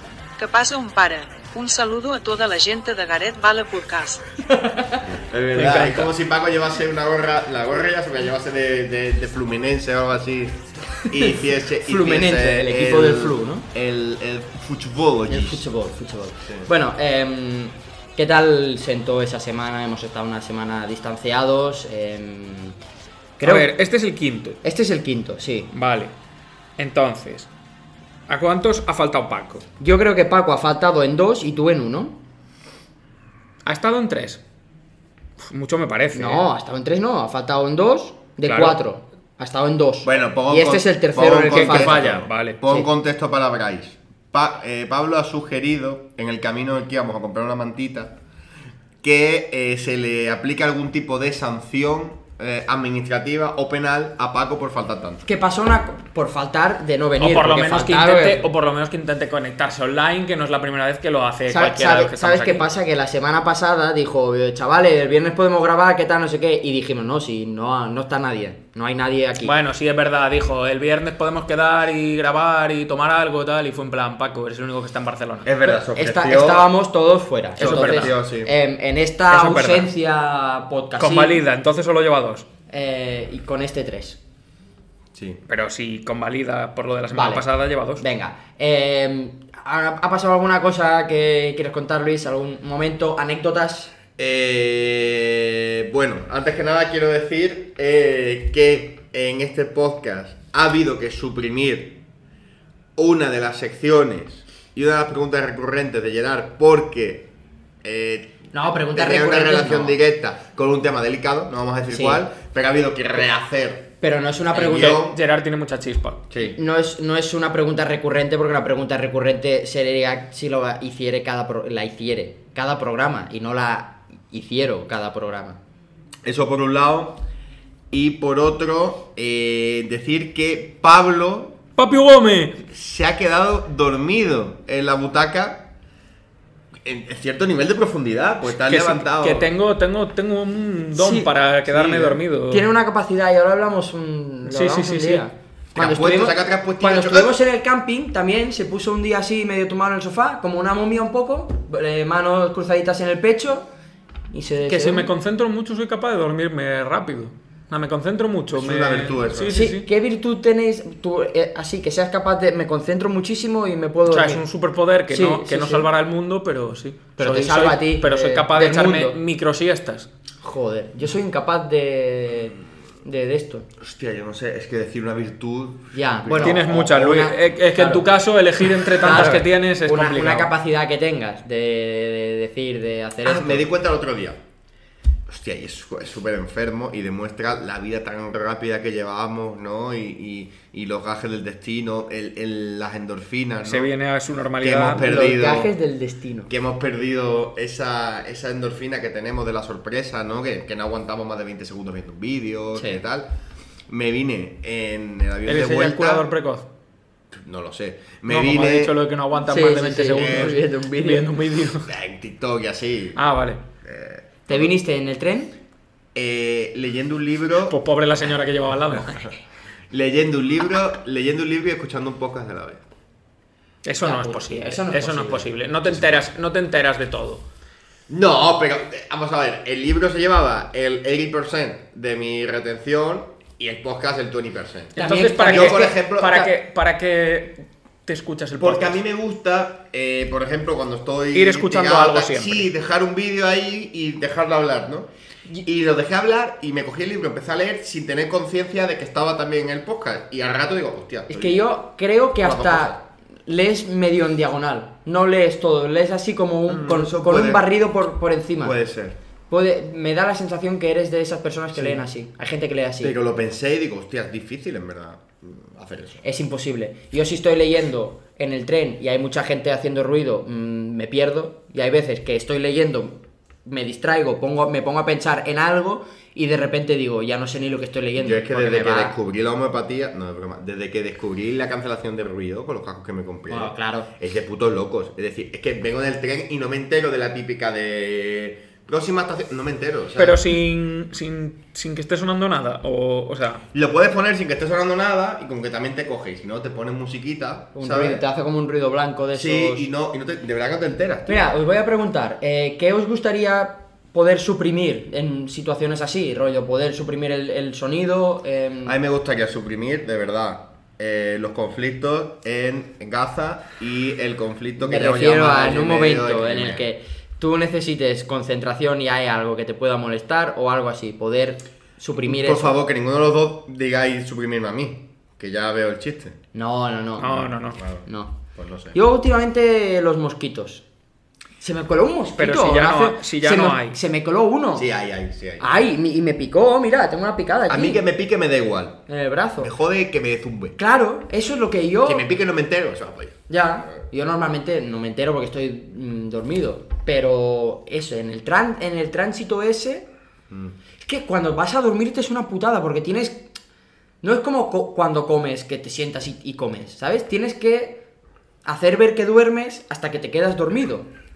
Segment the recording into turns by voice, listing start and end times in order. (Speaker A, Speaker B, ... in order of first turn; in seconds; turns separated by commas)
Speaker A: 0.4-4.3, Speaker B: 4.5-5.1, Speaker C: 5.1-15.6, Speaker D: 5.5-6.1, Speaker B: 11.8-13.7, Speaker B: 15.3-22.8, Speaker B: 23.4-23.7, Speaker D: 23.4-24.6, Speaker B: 24.6-25.7, Speaker D: 25.7-26.1, Speaker D: 26.8-27.5, Speaker D: 28.3-29.6, Speaker B: 29.8-32.2, Speaker D: 33.6-34.4, Speaker D: 35.4-36.4, Speaker B: 36.1-42.9, Speaker D: 38.5-38.8, Speaker C: 40.0-48.1, Speaker D: 41.5-42.6, Speaker C: 49.0-55.2, Speaker B: 55.2-58.5, Speaker D: 57.2-62.6, Speaker B: 61.5-69.5, Speaker D: 69.4-75.5, Speaker C: 75.4-76.7, Speaker B: 75.6-81.4, Speaker D: 77.6-78.1, Speaker C: 77.6-78.5, Speaker D: 79.3-79.9, Speaker D: 81.0-82.5, Speaker B: 82.7-84.2, Speaker C: 85.1-85.4, Speaker D: 85.5-88.0, Speaker B: 87.1-87.4, Speaker B: 88.0-93.9, Speaker C: 94.2-102.0, Speaker C: 103.0-107.3, Speaker C: 107.8-113.9, Speaker B: 108.5-110.0, Speaker B: 111.9-112.2, Speaker B: 114.0-115.0, Speaker C: 114.5-115.2, Speaker D: 114.7-116.2, Speaker C: 116.3-116.6, Speaker B: 116.5-125.6, Speaker C: 126.2-127.2, Speaker C: 127.9-131.6, Speaker D: 131.8-132.6, Speaker C: 132.7-135.6, Speaker C: 136.8-139.5, Speaker D: 138.6-142.7, Speaker B: 140.9-141.3, Speaker C: 141.7-142.2, Speaker B: 142.5-153.7, Speaker D: 144.5-145.2, Speaker C: 145.7-147.3, Speaker B: 154.3-155.1, Speaker D: 154.6-159.9, Speaker C: 158.5-159.6, Speaker B: 159.5-164.4, Speaker D: 164.1-170.1, Speaker B: 165.1-165.9, Speaker B: 167.2-169.2, Speaker B: 170.4-173.7, Speaker C: 173.8-177.1, Speaker B: 175.9-178.0, Speaker D: 176.4-180.5, Speaker B: 179.0-183.7, Speaker C: 183.2-184.4, Speaker C: 185.3-193.9, Speaker D: 193.6-195.0, Speaker C: 194.6-195.7, Speaker B: 195.0-196.5, Speaker C: 196.5-203.3, Speaker B: 202.7-203.0, Speaker C: 203.9-206.3, Speaker D: 205.4-206.7, Speaker C: 207.3-209.0, Speaker D: 208.3-211.9, Speaker B: 209.5-211.3, Speaker C: 210.1-210.6, Speaker C: 211.8-213.2, Speaker D: 213.2-213.6, Speaker C: 213.8-214.7, Speaker B: 214.5-215.5, Speaker C: 216.1-217.8, Speaker D: 217.7-219.3, Speaker C: 218.9-219.3, Speaker C: 219.9-222.8, Speaker D: 223.8-227.4, Speaker B: 224.0-225.5, Speaker C: 225.9-226.3, Speaker C: 228.1-236.5, Speaker B: 234.9-236.5, Speaker D: 235.0-239.0, Speaker C: 238.6-245.1, Speaker D: 241.3-242.7, Speaker C: 245.6-251.6, Speaker B: 251.3-258.8, Speaker C: 252.4-253.0, Speaker C: 256.7-257.7, Speaker C: 258.6-259.2, Speaker B: 259.5-263.1, Speaker C: 261.7-262.0, Speaker C: 263.0-266.2, Speaker B: 266.2-279.1, Speaker C: 278.2-290.4, Speaker B: 283.5-284.1, Speaker D: 290.2-293.6, Speaker C: 293.7-298.2, Speaker B: 297.7-299.9, Speaker C: 299.3-301.4, Speaker B: 301.3-309.0, Speaker C: 308.8-316.9, Speaker B: 314.8-322.7, Speaker C: 322.2-326.4, Speaker B: 326.5-327.3, Speaker D: 327.2-327.8, Speaker C: 327.2-329.0, Speaker B: 328.0-328.3, Speaker B: 328.9-330.8, Speaker B: 331.6-334.9, Speaker D: 332.4-334.0, Speaker C: 334.7-335.7, Speaker B: 335.6-338.0, Speaker C: 337.7-339.0, Speaker B: 339.1-339.7, Speaker C: 339.6-340.8, Speaker B: 340.8-342.2, Speaker C: 342.0-343.4, Speaker B: 343.5-350.1, Speaker C: 350.5-350.7, Speaker B: 351.0-353.5, Speaker B: 354.2-358.0, Speaker B: 358.6-361.1